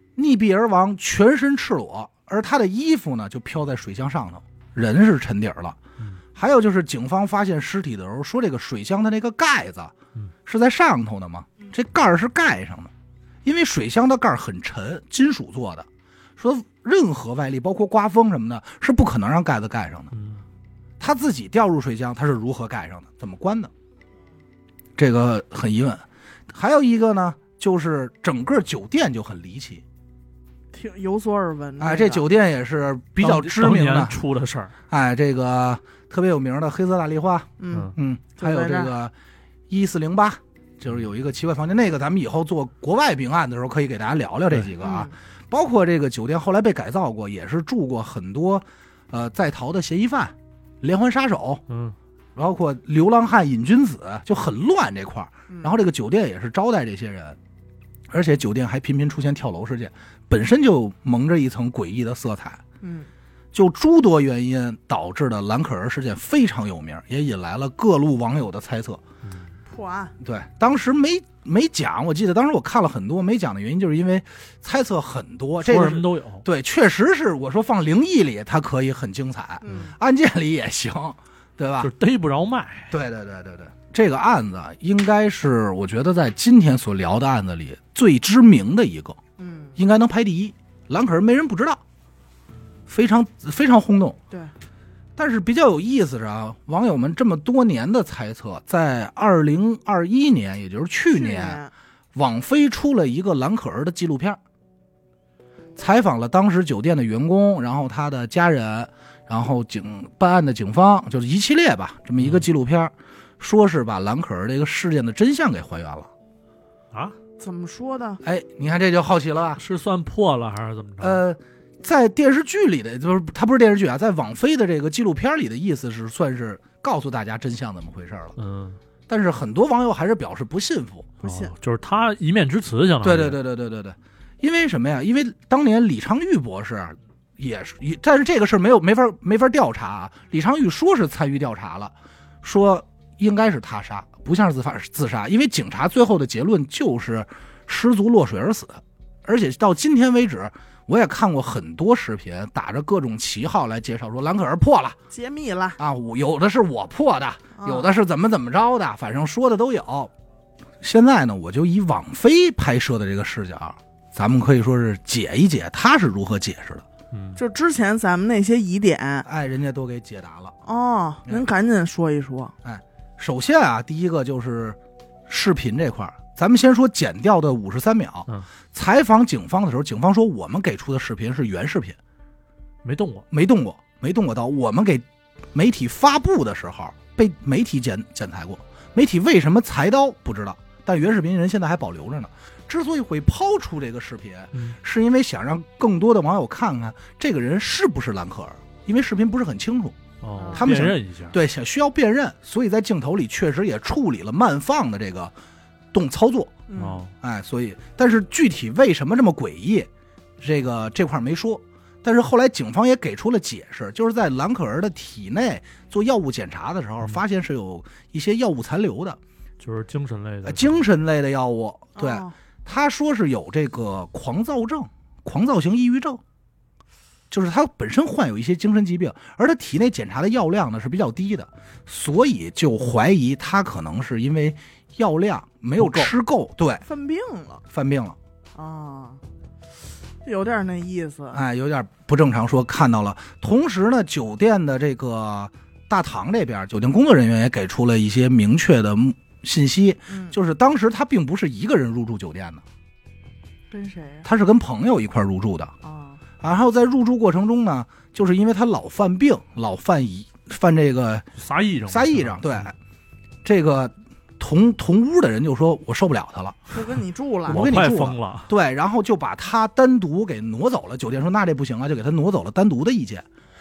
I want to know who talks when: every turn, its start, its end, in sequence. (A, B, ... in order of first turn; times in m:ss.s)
0:00.2-0:05.8 A
0:06.4-0:12.9 A
0:13.4-0:20.1 A
0:20.1-0:20.4 B
0:21.0-0:23.7 A
0:25.0-0:29.8 A
0:30.7-0:32.3 C
0:31.8-0:34.2 A
0:33.2-0:34.7 B
0:34.9-0:39.1 A
0:37.6-0:38.9 C
0:39.7-0:51.6 A
0:44.8-0:45.1 C
0:51.7-0:52.0 B
0:52.4-0:57.4 A
0:58.1-1:02.6 A
1:02.8-1:03.1 C
1:03.5-1:09.0 A
1:09.2-1:09.5 B
1:09.7-1:10.1 C
1:10.2-1:21.9 A
1:15.6-1:16.4 B
1:19.6-1:20.0 C
1:21.8-1:22.9 B
1:22.9-1:29.2 A
1:29.4-1:29.8 C
1:29.8-1:31.8 A
1:32.9-1:34.2 A
1:35.2-1:41.6 A
1:41.1-1:41.7 C
1:42.1-1:44.4 A
1:45.8-1:56.1 A
1:52.2-1:52.4 B
1:56.9-1:57.2 B
1:57.4-1:58.2 C
1:58.2-1:59.6 A
1:59.6-2:01.2 B
2:01.0-2:08.4 A
2:08.4-2:08.8 B
2:09.1-2:11.1 A
2:11.2-2:11.5 C
2:11.2-2:13.4 B
2:13.0-2:35.0 A
2:35.1-2:35.8 C
2:35.8-2:40.1 A
2:37.6-2:37.9 C
2:40.8-2:46.8 A
2:47.1-2:47.4 B
2:47.4-2:49.3 C
2:49.2-2:50.6 A
2:50.6-2:52.5 C
2:52.6-3:02.0 A
3:02.8-3:03.3 B
3:03.3-3:20.0 A
3:20.2-3:21.4 B
3:20.4-3:20.7 C
3:20.5-3:25.3 A
3:25.9-3:26.6 A
3:26.7-3:27.0 C
3:26.8-3:27.1 B
3:27.2-3:29.9 A
3:30.4-3:39.2 A
3:39.6-3:40.9 B
3:40.4-3:46.2 A
3:42.0-3:42.4 C
3:47.3-3:56.8 A
3:55.8-3:56.1 B
3:56.8-3:57.6 C
3:57.7-3:58.2 A
3:58.6-3:59.2 C
4:00.2-4:01.4 C
4:01.3-4:12.6 A
4:10.1-4:10.4 C
4:13.7-4:14.3 C
4:14.2-4:15.7 A
4:15.8-4:16.2 C
4:16.4-4:21.3 A
4:21.4-4:22.7 B
4:21.9-4:22.7 A
4:23.4-4:26.6 A
4:26.7-4:27.6 C
4:27.5-4:28.5 B
4:27.5-4:33.3 A